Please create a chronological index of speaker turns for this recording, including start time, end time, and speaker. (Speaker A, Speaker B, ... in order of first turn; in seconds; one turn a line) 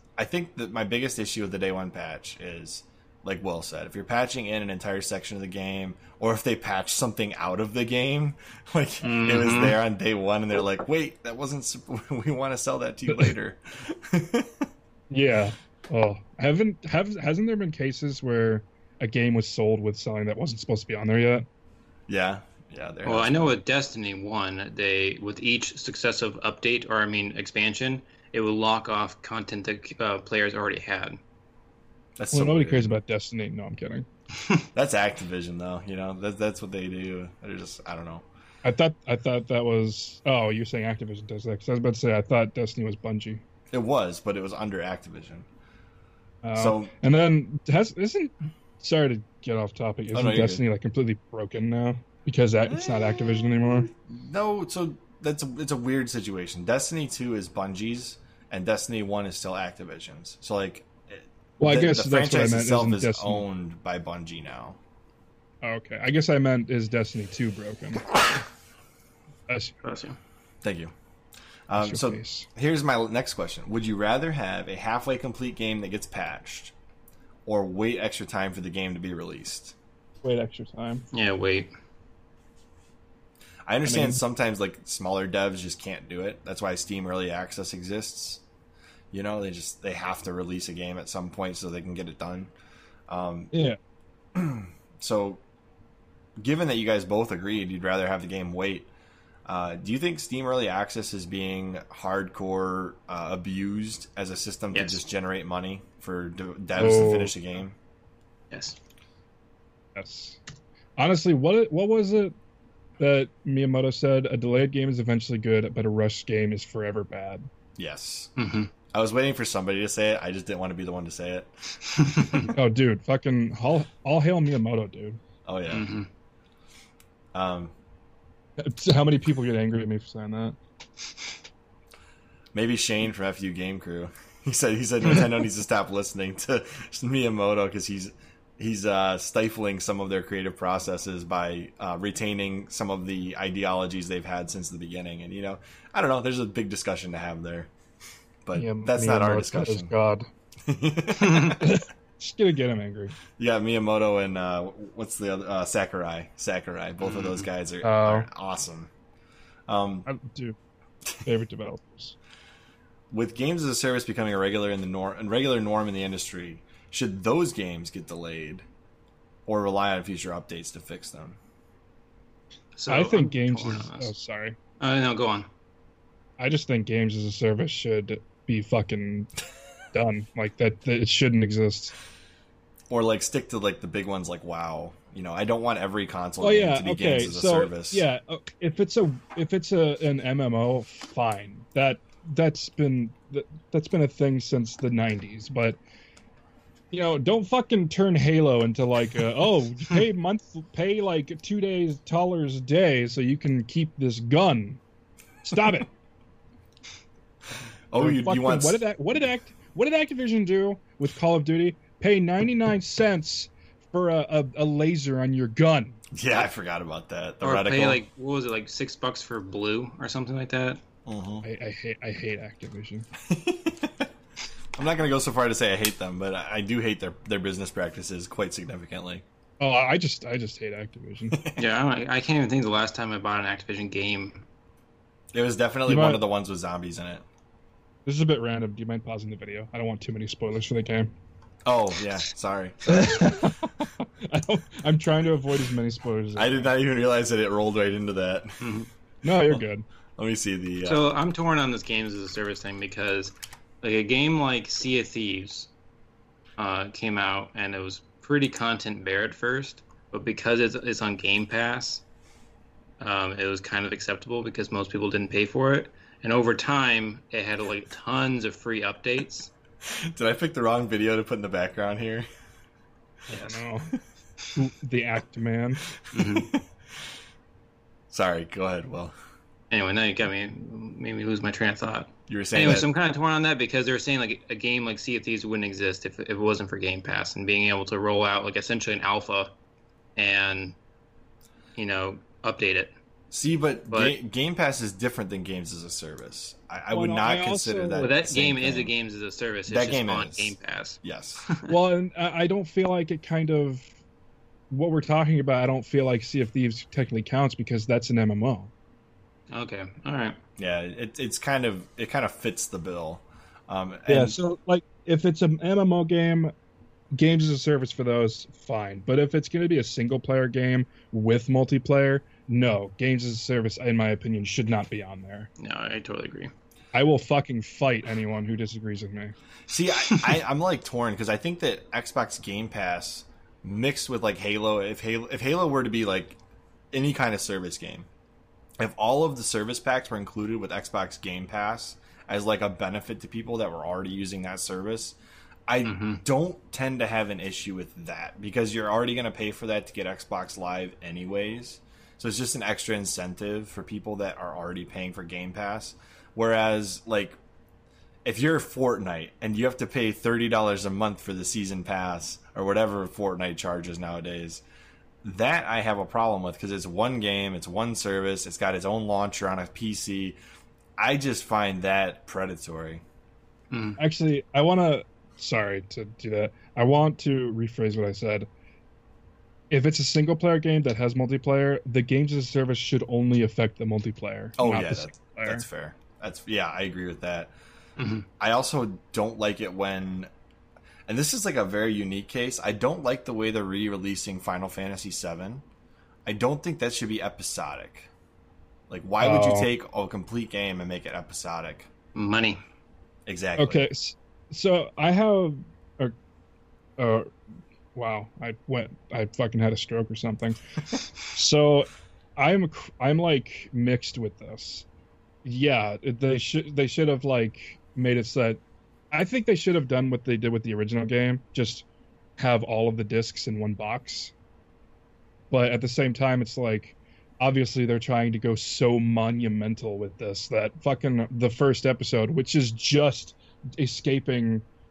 Speaker A: 0.2-14.7
Speaker B: 9.0-9.8
Speaker C: 15.1-21.4
Speaker A: 22.1-23.6
Speaker B: 23.0-31.2
Speaker A: 32.2-33.0
Speaker C: 32.3-34.0
Speaker A: 34.7-38.2
Speaker C: 38.6-43.4
Speaker A: 43.7-45.5
Speaker C: 46.4-53.9
Speaker A: 46.5-46.9
Speaker A: 50.1-50.6
Speaker A: 52.7-64.8
Speaker C: 61.6-63.4
Speaker C: 65.6-68.2
Speaker C: 69.5-69.8
Speaker B: 69.8-70.2
Speaker A: 70.6-70.9
Speaker A: 71.7-76.7
Speaker C: 71.8-72.5
Speaker A: 77.5-79.7
Speaker C: 80.2-81.0
Speaker B: 81.1-81.7
Speaker A: 83.7-88.4
Speaker C: 83.8-84.2
Speaker A: 89.1-92.5
Speaker A: 93.1-93.5
Speaker C: 93.5-93.8
Speaker A: 94.3-95.4
Speaker A: 96.4-98.9
Speaker A: 99.5-107.8
Speaker B: 104.7-105.0
Speaker C: 106.8-107.3
Speaker B: 108.5-108.8
Speaker C: 110.0-110.4
Speaker C: 111.0-112.3
Speaker C: 113.0-117.5
Speaker A: 117.8-118.3
Speaker B: 118.4-118.7
Speaker A: 118.9-121.5
Speaker B: 121.9-122.5
Speaker C: 122.5-125.2
Speaker A: 125.5-125.9
Speaker B: 125.7-126.1
Speaker A: 127.3-127.7
Speaker C: 128.6-130.6
Speaker A: 132.5-147.7
Speaker A: 148.4-149.9
Speaker C: 148.5-150.3
Speaker A: 150.6-151.6
Speaker B: 151.2-151.5
Speaker C: 151.5-153.1
Speaker A: 153.4-158.9
Speaker B: 157.0-157.4
Speaker C: 157.8-158.3
Speaker A: 159.7-160.1
Speaker C: 160.1-160.6
Speaker C: 161.2-162.2
Speaker A: 163.1-168.6
Speaker A: 169.5-171.4
Speaker B: 172.8-174.1
Speaker C: 172.9-174.6
Speaker B: 174.8-175.5
Speaker C: 176.4-179.3
Speaker C: 179.9-181.9
Speaker A: 182.9-188.0
Speaker C: 186.4-195.8
Speaker C: 196.9-204.8
Speaker C: 205.4-205.9
Speaker A: 207.9-208.8
Speaker C: 208.0-216.0
Speaker A: 216.1-218.0
Speaker B: 217.4-220.8
Speaker A: 221.1-221.4
Speaker C: 221.4-223.1
Speaker A: 223.2-224.1
Speaker A: 224.8-229.2
Speaker C: 229.6-231.4
Speaker A: 231.3-231.6
Speaker B: 231.6-234.4
Speaker A: 235.3-237.2
Speaker C: 235.8-236.2
Speaker C: 238.1-241.1
Speaker A: 241.6-243.6
Speaker C: 242.8-246.7
Speaker A: 246.3-248.8
Speaker B: 248.6-248.9
Speaker C: 249.2-249.8
Speaker A: 250.2-251.1
Speaker B: 250.8-255.7
Speaker B: 256.6-262.0
Speaker B: 263.0-269.5
Speaker A: 269.9-272.2
Speaker C: 273.3-273.9
Speaker C: 274.5-275.8
Speaker A: 275.9-276.6
Speaker B: 276.1-276.5
Speaker A: 278.1-279.1
Speaker B: 279.7-289.5
Speaker A: 282.3-282.9
Speaker B: 290.1-290.8
Speaker B: 291.8-292.9
Speaker A: 293.3-298.9
Speaker B: 293.9-294.1
Speaker C: 296.9-298.1
Speaker B: 298.0-301.7
Speaker A: 299.7-301.4
Speaker C: 301.7-303.9
Speaker C: 304.7-308.7
Speaker B: 309.5-310.4
Speaker A: 310.6-314.4
Speaker C: 314.1-316.5
Speaker C: 317.1-325.5
Speaker B: 325.6-326.5
Speaker C: 326.9-329.4
Speaker A: 329.7-336.4
Speaker A: 336.9-338.1
Speaker A: 338.8-357.4
Speaker B: 345.8-346.2
Speaker A: 358.2-364.6
Speaker A: 365.2-370.4
Speaker A: 371.0-373.0
Speaker B: 373.7-374.0
Speaker C: 374.0-378.5
Speaker C: 379.7-385.6
Speaker A: 384.6-387.5
Speaker B: 388.0-388.3
Speaker A: 388.4-390.3
Speaker A: 391.1-395.6
Speaker A: 396.2-398.1
Speaker A: 398.9-401.9
Speaker C: 399.2-399.7
Speaker B: 402.1-402.6
Speaker A: 403.2-403.9
Speaker C: 403.6-406.1
Speaker C: 407.0-407.3
Speaker C: 407.9-410.6
Speaker C: 411.2-414.9
Speaker C: 415.4-421.9
Speaker C: 422.4-424.3
Speaker C: 425.5-434.6